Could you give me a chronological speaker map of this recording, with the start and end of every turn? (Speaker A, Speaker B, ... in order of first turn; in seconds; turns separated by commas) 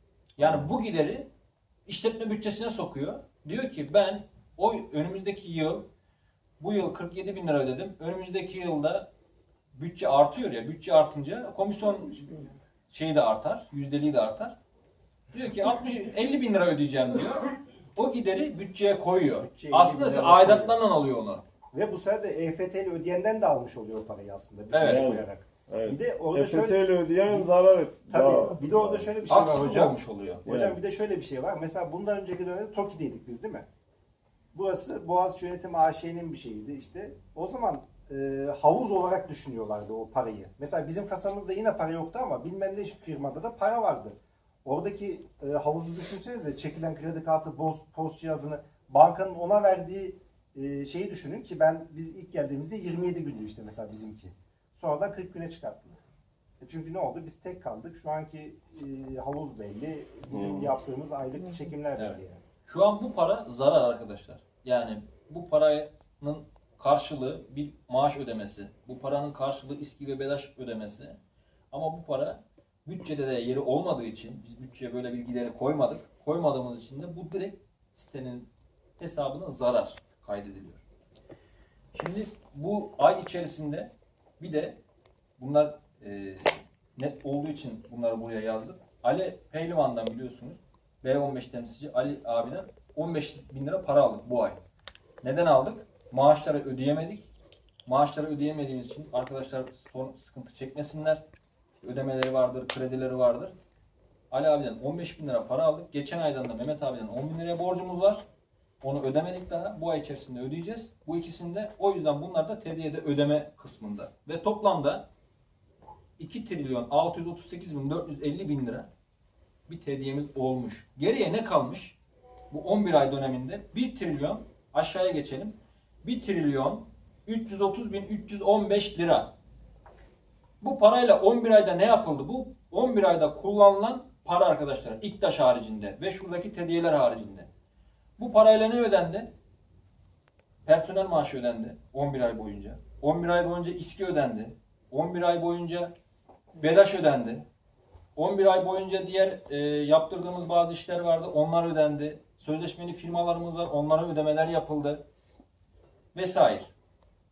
Speaker A: 0.4-1.3, Speaker A: 1.9-5.9, Speaker A: 6.6-9.1, Speaker A: 9.7-14.6, Speaker A: 15.3-21.4, Speaker B: 19.4-20.7, Speaker B: 21.7-27.5, Speaker A: 24.7-25.0, Speaker C: 24.8-29.1, Speaker B: 28.1-33.6, Speaker A: 29.3-30.4, Speaker C: 30.4-30.8, Speaker B: 34.5-56.0, Speaker B: 56.6-62.4, Speaker C: 60.3-60.7, Speaker A: 62.0-71.2, Speaker A: 71.7-80.8, Speaker A: 81.9-84.8, Speaker A: 85.4-94.6, Speaker A: 95.2-97.3, Speaker A: 97.8-101.2, Speaker A: 101.8-103.5, Speaker A: 104.3-108.2, Speaker A: 108.8-115.1, Speaker A: 116.2-118.9, Speaker A: 119.7-122.0, Speaker A: 122.5-129.3, Speaker A: 130.6-137.5, Speaker A: 138.2-139.3, Speaker A: 140.7-145.9, Speaker A: 146.6-147.5, Speaker A: 148.2-155.0, Speaker A: 156.1-156.7